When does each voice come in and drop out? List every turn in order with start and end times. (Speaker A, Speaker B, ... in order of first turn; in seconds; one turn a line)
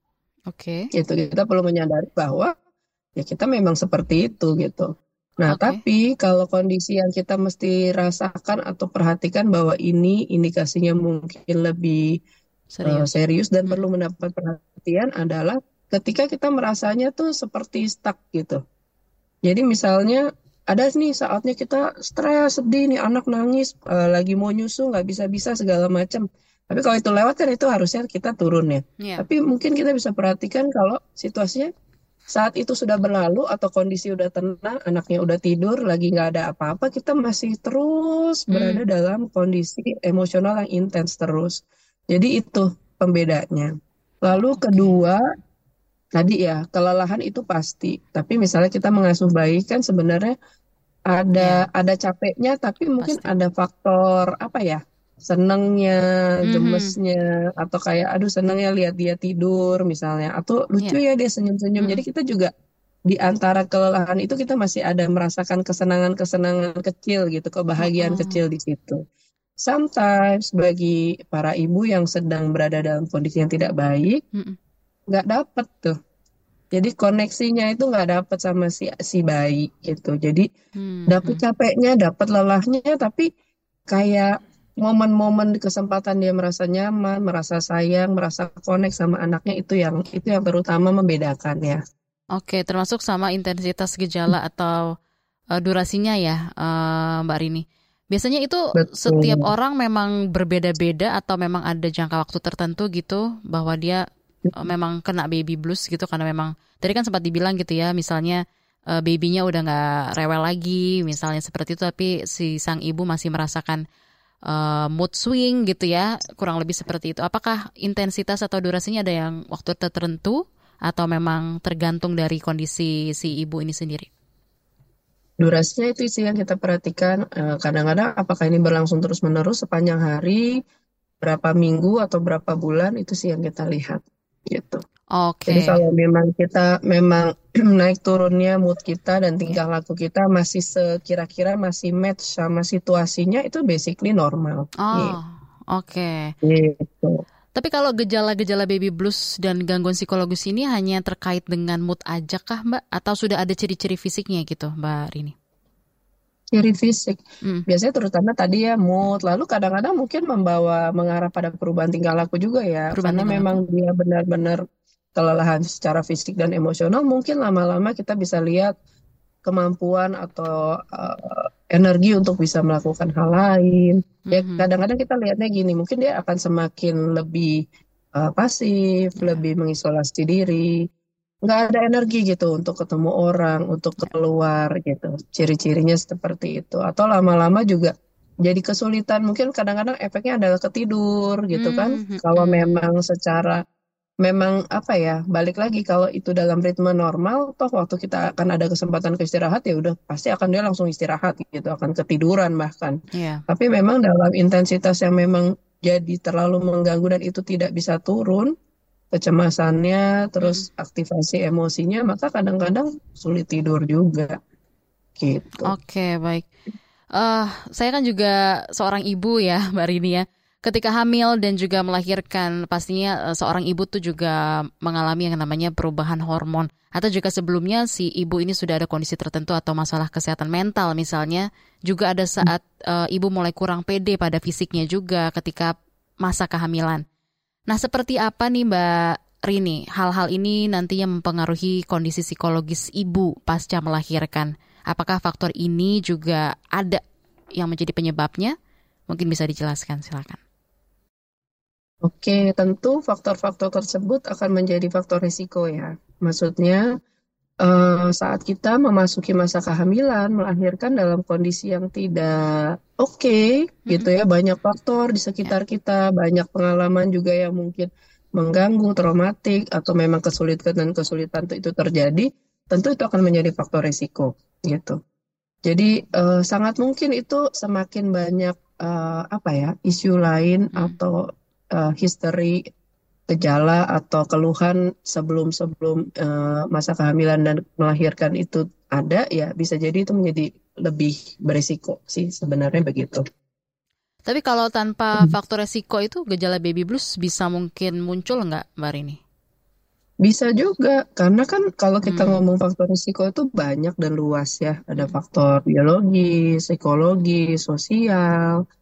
Speaker A: 0.5-0.9
Speaker B: 0.9-2.5
Speaker B: 3.2-4.9
Speaker B: 5.4-12.1
Speaker A: 5.5-5.8
Speaker A: 12.7-13.1
Speaker B: 12.8-18.6
Speaker B: 19.4-31.7
Speaker B: 32.3-43.7
Speaker A: 38.5-38.8
Speaker B: 44.2-45.2
Speaker A: 44.5-45.0
Speaker B: 46.1-50.3
Speaker B: 51.1-62.5
Speaker A: 51.4-51.7
Speaker A: 53.0-53.3
Speaker A: 56.5-57.0
Speaker B: 63.1-69.0
Speaker A: 67.8-68.4
Speaker B: 69.6-74.2
Speaker B: 75.1-76.0
Speaker B: 76.7-80.5
Speaker A: 80.8-81.4
Speaker B: 81.1-83.3
Speaker B: 83.9-91.8
Speaker A: 92.4-94.8
Speaker A: 95.6-104.0
Speaker B: 98.8-99.5
Speaker A: 104.5-108.4
Speaker A: 108.9-113.8
Speaker A: 114.5-124.1
Speaker B: 125.4-130.5
Speaker B: 131.2-134.8
Speaker A: 135.2-135.8
Speaker B: 135.5-145.2
Speaker A: 144.8-146.3
Speaker B: 146.4-147.2
Speaker A: 147.5-155.3
Speaker B: 156.5-164.6
Speaker A: 162.9-163.6
Speaker B: 165.2-168.7
Speaker B: 169.4-177.5
Speaker A: 174.3-174.7
Speaker B: 178.1-180.8
Speaker B: 181.4-187.9
Speaker B: 188.4-193.6
Speaker A: 191.5-192.8
Speaker B: 194.2-203.0
Speaker A: 203.1-203.4
Speaker B: 203.5-208.5
Speaker B: 209.1-214.4
Speaker A: 210.4-210.7
Speaker B: 215.2-215.7
Speaker A: 215.7-216.5
Speaker A: 217.2-237.0
Speaker A: 237.7-238.9
Speaker A: 239.4-247.0
Speaker A: 247.6-248.5
Speaker A: 249.1-250.4
Speaker B: 252.0-256.9
Speaker B: 257.6-275.0
Speaker B: 275.7-281.2
Speaker B: 281.8-282.6
Speaker B: 283.3-293.2
Speaker A: 294.3-299.2
Speaker B: 300.2-308.6
Speaker A: 302.0-302.4